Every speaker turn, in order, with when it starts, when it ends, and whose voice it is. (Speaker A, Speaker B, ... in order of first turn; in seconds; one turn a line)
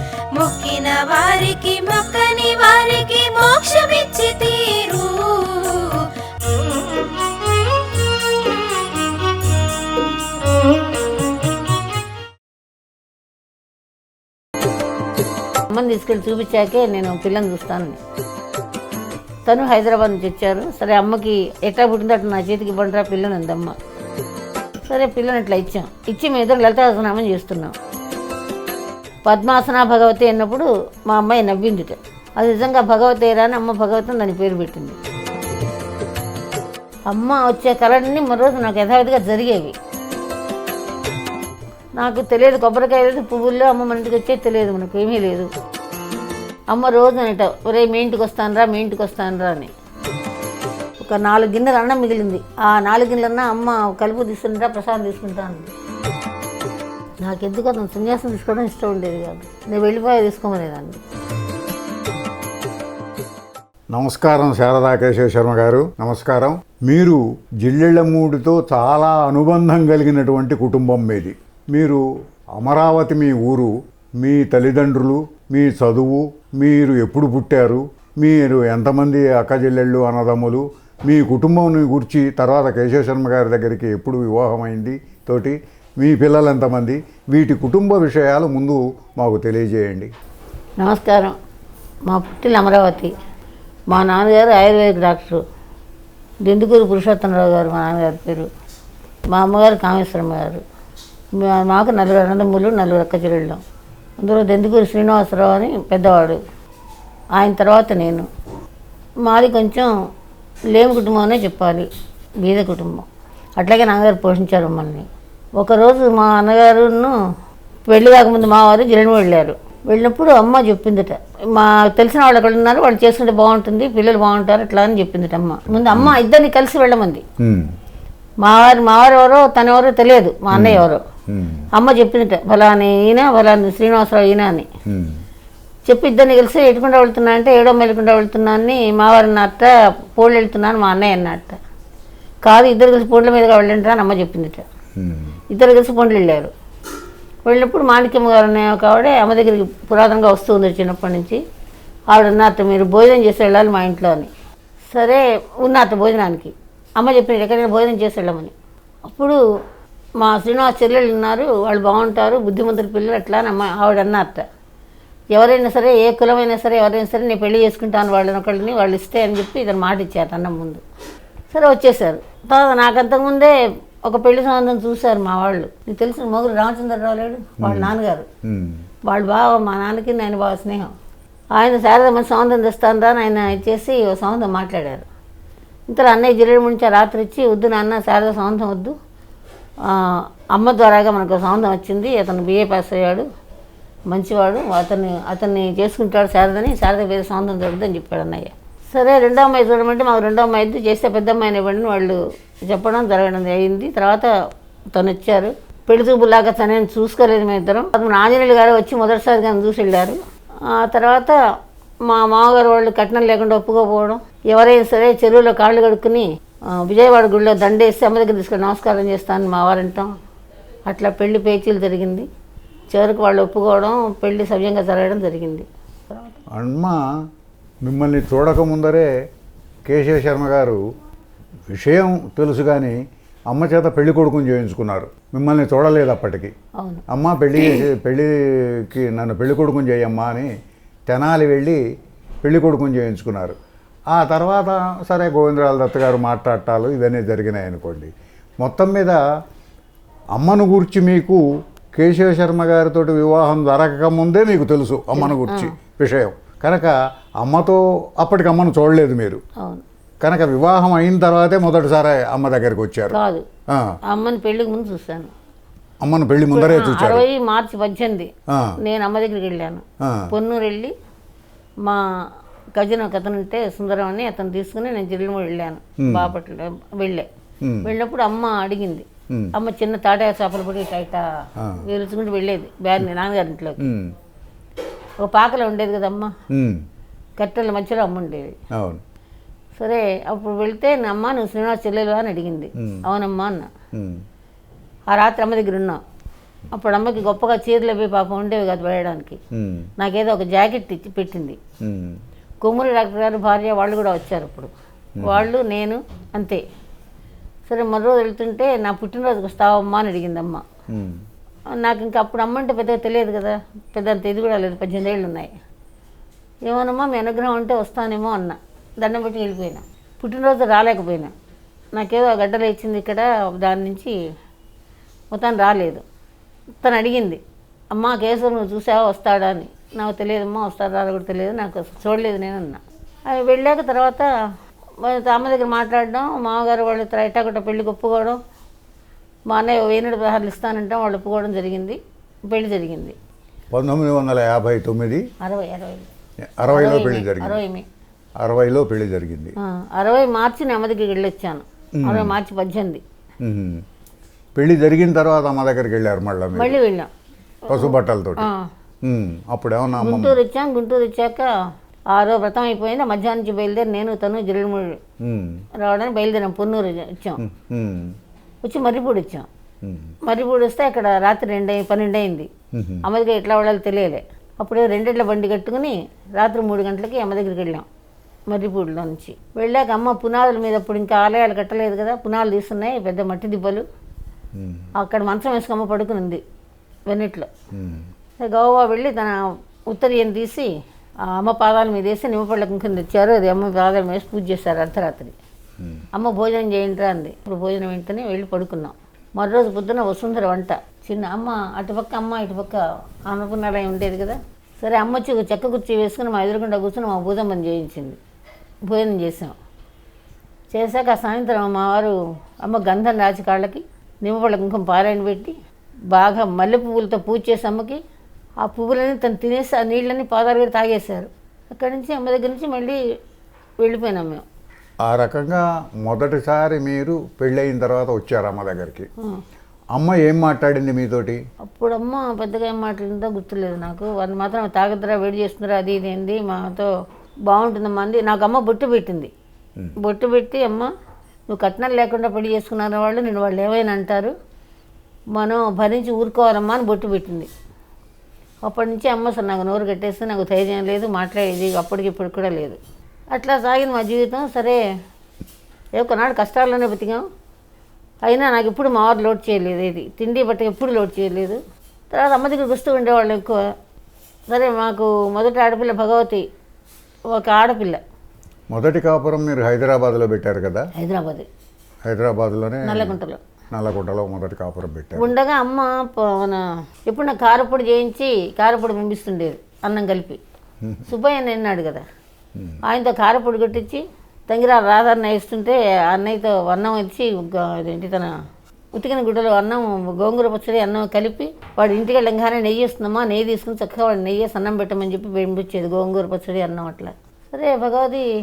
Speaker A: 0.3-6.0
Speaker B: 15.7-18.0
Speaker B: 19.4-23.8
Speaker B: 24.9-27.7
Speaker B: 29.2-35.0
Speaker B: 37.1-39.7
Speaker B: 42.0-45.5
Speaker B: 46.7-49.7
Speaker B: 51.0-55.7
Speaker B: 57.2-61.0
Speaker C: 63.9-72.0
Speaker C: 72.5-90.1
Speaker B: 90.8-91.4
Speaker B: 92.1-93.1
Speaker B: 93.9-95.4
Speaker B: 96.4-98.5
Speaker B: 99.3-100.6
Speaker B: 101.3-103.6
Speaker B: 104.2-106.4
Speaker B: 107.3-108.3
Speaker B: 109.2-109.9
Speaker B: 110.7-111.9
Speaker B: 112.4-117.2
Speaker B: 117.9-127.2
Speaker C: 125.8-126.2
Speaker C: 127.4-127.7
Speaker B: 128.4-131.0
Speaker C: 130.5-131.7
Speaker B: 131.7-134.7
Speaker C: 134.8-135.2
Speaker B: 135.9-141.6
Speaker B: 142.4-144.6
Speaker C: 145.0-145.3
Speaker B: 145.5-146.5
Speaker B: 147.4-151.4
Speaker B: 152.1-154.3
Speaker B: 154.9-158.5
Speaker B: 159.0-159.4
Speaker B: 160.2-164.4
Speaker B: 165.3-170.8
Speaker B: 171.5-178.3
Speaker C: 177.6-177.9
Speaker C: 178.4-178.8
Speaker B: 179.1-180.9
Speaker B: 181.5-185.1
Speaker B: 185.9-188.9
Speaker B: 189.8-193.3
Speaker B: 194.1-204.3
Speaker B: 204.9-211.4
Speaker B: 212.0-220.1
Speaker B: 220.9-222.3
Speaker B: 222.9-226.4
Speaker C: 226.5-227.0
Speaker C: 227.8-229.1
Speaker C: 229.9-230.8
Speaker C: 231.7-233.0
Speaker C: 233.5-236.5
Speaker B: 236.8-237.0
Speaker C: 237.1-240.5
Speaker C: 241.1-241.8
Speaker C: 242.4-243.6
Speaker C: 244.1-249.2
Speaker C: 250.3-251.4
Speaker C: 251.9-259.4
Speaker B: 255.2-255.7
Speaker B: 259.6-259.8
Speaker C: 260.2-263.9
Speaker B: 263.1-263.4
Speaker B: 264.1-265.3
Speaker C: 266.0-267.2
Speaker B: 266.5-270.9
Speaker C: 268.5-268.8
Speaker C: 270.0-270.3
Speaker B: 272.8-277.3
Speaker C: 276.0-276.3
Speaker C: 277.6-277.9
Speaker B: 277.8-281.3
Speaker B: 281.8-283.9
Speaker C: 283.8-284.1
Speaker B: 285.2-286.3
Speaker C: 286.5-286.8
Speaker B: 287.4-288.6
Speaker C: 288.7-289.0
Speaker B: 289.8-293.7
Speaker C: 293.9-294.2
Speaker B: 295.1-296.0
Speaker B: 296.7-299.4
Speaker C: 299.5-299.9
Speaker B: 300.0-301.6
Speaker C: 301.8-302.2
Speaker B: 302.6-306.6
Speaker C: 305.2-305.4
Speaker B: 307.7-310.6
Speaker C: 310.9-311.2
Speaker B: 311.7-315.5
Speaker B: 316.6-321.3
Speaker B: 321.9-324.2
Speaker B: 325.3-326.0
Speaker B: 326.8-327.4
Speaker B: 327.9-334.3
Speaker B: 335.0-338.4
Speaker B: 339.5-343.1
Speaker C: 343.7-345.3
Speaker B: 345.4-346.1
Speaker C: 346.6-347.6
Speaker B: 346.7-347.9
Speaker C: 348.4-349.5
Speaker B: 349.6-353.0
Speaker C: 352.0-352.4
Speaker C: 353.4-353.8
Speaker C: 354.6-356.8
Speaker B: 356.5-357.1
Speaker B: 357.6-358.7
Speaker C: 357.7-358.5
Speaker C: 359.0-360.4
Speaker B: 360.0-361.5
Speaker B: 362.1-365.0
Speaker C: 365.2-365.6
Speaker B: 365.8-367.4
Speaker C: 367.4-368.1
Speaker B: 368.6-369.5
Speaker C: 369.8-370.1
Speaker B: 370.2-372.5
Speaker C: 372.7-373.0
Speaker B: 373.0-377.9
Speaker B: 378.5-383.9
Speaker C: 384.5-384.9
Speaker B: 385.0-386.4
Speaker B: 387.1-387.5
Speaker C: 387.7-388.1
Speaker B: 388.4-390.7
Speaker B: 391.2-395.4
Speaker B: 396.1-408.2
Speaker B: 408.9-409.6
Speaker B: 410.7-415.5
Speaker B: 416.1-418.0
Speaker B: 418.6-423.0
Speaker B: 423.8-424.4
Speaker C: 425.0-429.1
Speaker C: 429.9-431.4
Speaker B: 431.6-436.9
Speaker B: 437.5-439.3
Speaker B: 440.0-440.9
Speaker B: 441.5-444.3
Speaker B: 445.3-447.5
Speaker B: 448.6-452.8
Speaker B: 453.3-454.8
Speaker B: 456.0-457.2
Speaker B: 458.2-463.7
Speaker B: 464.5-466.5
Speaker B: 467.3-468.0
Speaker C: 468.7-470.9
Speaker B: 470.9-471.5
Speaker C: 472.1-473.1
Speaker B: 472.8-473.4
Speaker C: 473.7-475.3
Speaker B: 475.1-480.4
Speaker B: 481.1-482.1
Speaker B: 482.9-488.4
Speaker B: 488.9-498.3